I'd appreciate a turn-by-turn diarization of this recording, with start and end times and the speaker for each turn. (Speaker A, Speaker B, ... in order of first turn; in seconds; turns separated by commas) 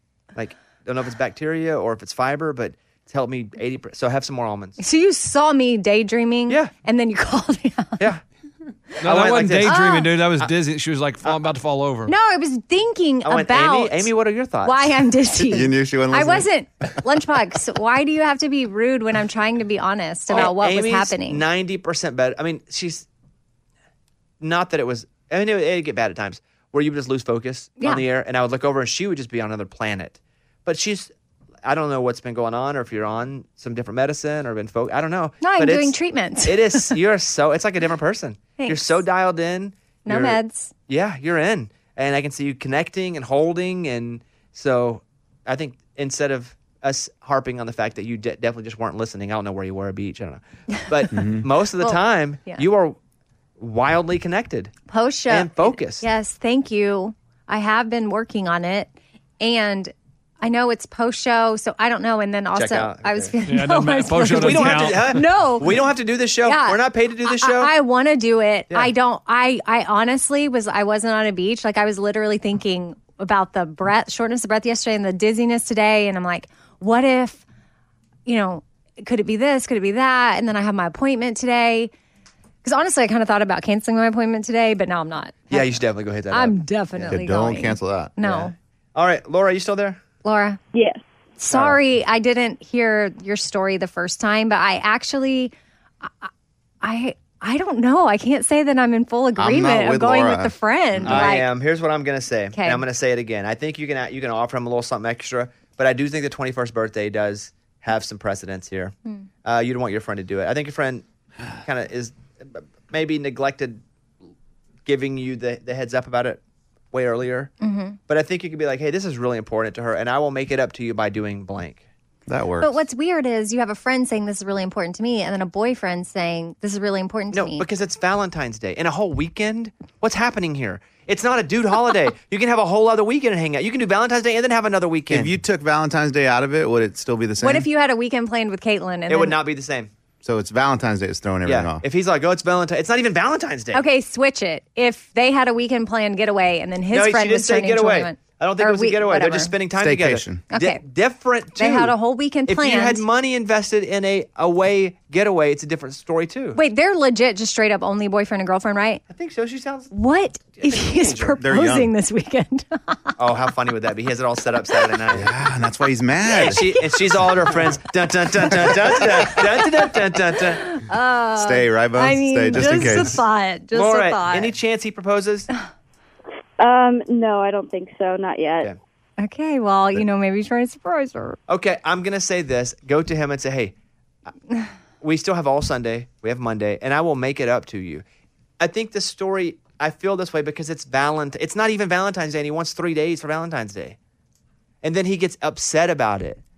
Speaker A: 0.3-4.8, Speaker B: 4.8-8.1, Speaker C: 9.0-12.1, Speaker A: 9.0-9.8, Speaker B: 9.6-10.1, Speaker B: 12.1-14.1, Speaker A: 13.2-15.6, Speaker B: 14.6-21.4, Speaker D: 15.5-16.5, Speaker A: 20.3-23.1, Speaker A: 24.4-31.1, Speaker A: 31.6-53.0, Speaker B: 35.4-36.9, Speaker B: 38.6-39.0, Speaker B: 40.0-40.7, Speaker D: 51.1-51.4, Speaker B: 51.8-52.6, Speaker A: 53.6-54.7, Speaker B: 54.9-65.9, Speaker A: 55.3-56.0, Speaker A: 62.5-63.3, Speaker C: 63.5-65.2, Speaker A: 64.2-67.7, Speaker B: 66.4-77.4, Speaker B: 78.2-81.9, Speaker B: 82.6-88.5, Speaker A: 85.5-87.1, Speaker D: 87.0-88.2, Speaker A: 88.2-90.0, Speaker B: 90.2-90.6, Speaker E: 90.7-91.0, Speaker B: 91.4-96.3, Speaker A: 91.5-91.8, Speaker B: 96.8-101.5, Speaker D: 99.3-101.3, Speaker A: 101.0-111.0, Speaker B: 102.5-102.8, Speaker A: 111.6-113.8, Speaker A: 114.8-116.4, Speaker A: 116.9-117.5, Speaker B: 117.6-118.0, Speaker A: 118.1-121.8, Speaker D: 122.3-122.8, Speaker B: 122.6-127.7, Speaker A: 127.3-135.3, Speaker D: 135.1-137.7, Speaker B: 137.4-139.4, Speaker A: 139.1-139.9, Speaker D: 140.2-141.8, Speaker A: 141.4-143.8, Speaker B: 143.7-149.5, Speaker A: 146.9-151.9, Speaker D: 149.8-150.4, Speaker B: 150.5-150.8, Speaker B: 151.6-153.0, Speaker A: 152.5-156.6, Speaker B: 156.5-159.0, Speaker A: 159.1-159.9, Speaker B: 159.9-163.1, Speaker A: 160.6-161.4, Speaker D: 161.4-161.9, Speaker A: 163.2-165.3, Speaker D: 165.1-166.7, Speaker A: 166.3-170.6, Speaker B: 170.6-174.5, Speaker D: 171.3-173.2, Speaker A: 172.6-173.1, Speaker A: 173.7-175.5, Speaker E: 176.6-178.7, Speaker B: 179.2-181.4, Speaker A: 181.5-183.7, Speaker A: 185.0-188.0, Speaker A: 188.6-194.0, Speaker A: 194.8-196.4